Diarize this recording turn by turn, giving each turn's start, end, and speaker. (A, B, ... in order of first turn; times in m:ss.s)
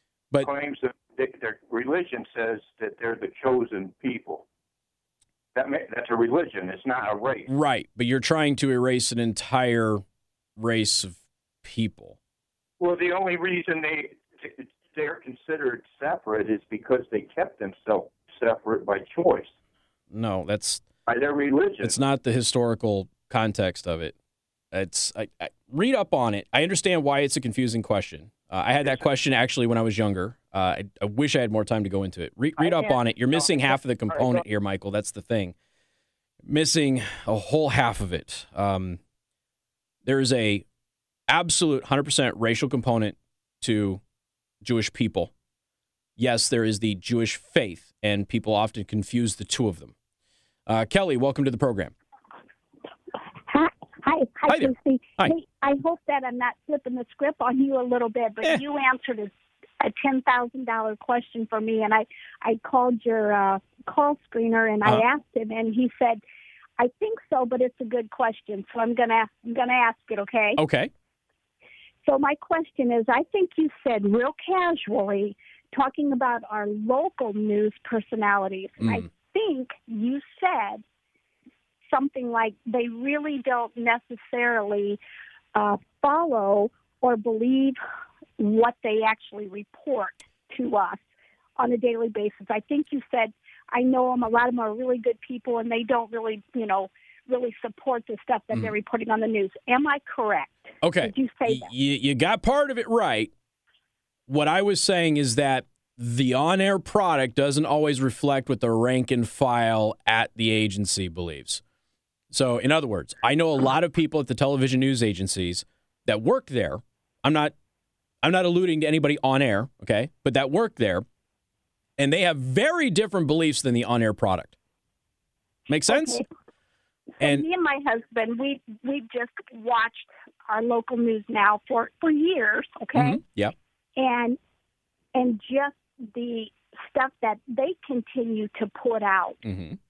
0:00.4-0:04.4 A
0:05.5-0:07.5 A
0:07.5-0:10.0 B
0:10.6-0:12.2 B
0:12.8-0:19.5 A
0:20.1-0:20.8 B
0:21.1-0:22.0 A
0:21.8-0:24.1 B
0:24.7-0:35.5 B
0:34.1-0:34.4 A
0:36.4-0:39.0 B
0:40.0-0:40.6 B
0:41.3-0:44.0 B
0:44.6-0:45.3 B
0:46.2-0:49.9 B
0:50.7-0:51.9 B
0:53.5-1:06.2 C
0:54.5-0:55.3 B
1:06.8-1:10.6 C
1:10.6-1:10.9 B
1:12.0-1:20.8 C
1:21.9-1:25.0 C
1:25.5-1:27.8 C
1:28.4-1:31.0 C
1:31.6-1:41.7 C
1:40.8-1:43.3 B
1:44.3-1:51.6 B
1:52.3-1:57.5 B
1:58.2-2:01.0 B
2:02.0-2:04.5 B
2:05.7-2:06.2 B
2:05.9-2:06.2 C
2:07.2-2:13.2 C
2:07.2-2:07.4 B
2:12.9-2:13.5 B
2:14.0-2:14.4 C
2:15.1-2:19.4 C
2:19.4-2:19.8 B